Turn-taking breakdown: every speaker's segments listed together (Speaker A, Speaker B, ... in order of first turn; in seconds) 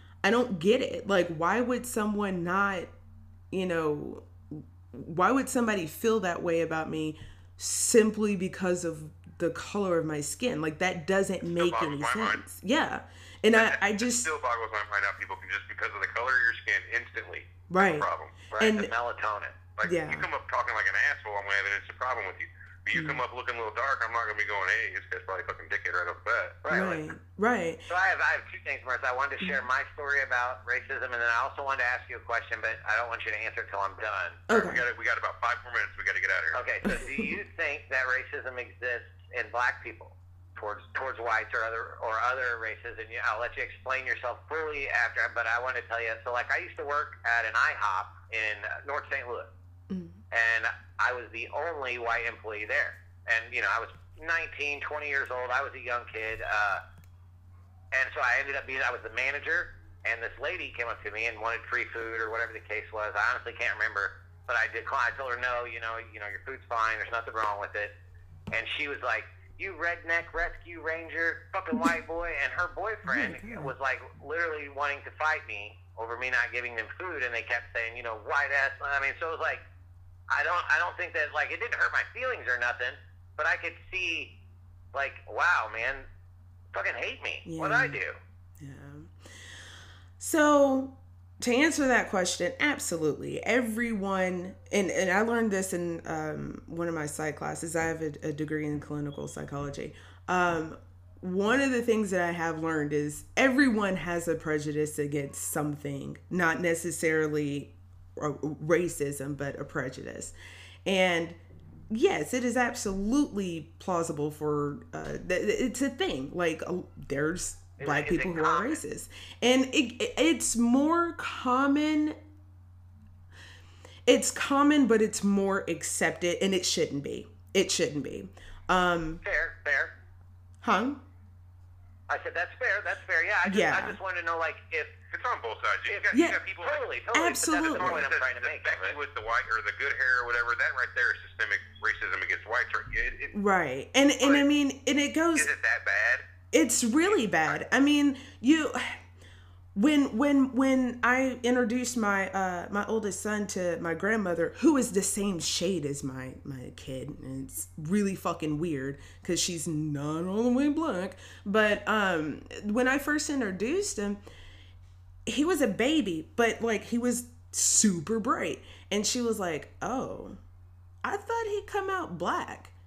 Speaker A: 0.2-2.9, 3.5-14.3, 17.7-18.1, 18.6-18.9, 19.8-20.3, 22.9-23.2, 26.7-27.9, 34.5-34.9, 36.9-37.3, 49.9-50.2, 73.1-73.7, 87.5-88.0, 88.6-89.2, 90.2-110.3, 110.8-111.4, 111.9-122.2, 124.1-129.2, 130.6-131.0, 133.5-134.0, 136.1-136.4, 137.1-138.1, 143.3-145.5, 146.5-149.0, 149.8-164.2, 165.3-170.4, 171.0-172.7
Speaker B: 11.5-12.4, 13.5-18.3, 19.8-26.6, 34.5-36.6, 135.1-137.0, 137.6-143.3, 145.3-146.2, 147.0-147.6
Speaker C: 18.5-19.6, 26.6-27.0, 27.9-34.5, 36.5-49.5, 50.3-56.8, 57.9-67.9, 68.5-79.7, 80.3-84.3, 84.9-86.1, 86.7-88.2, 117.8-118.8, 129.2-129.9, 132.1-134.9, 135.9-139.0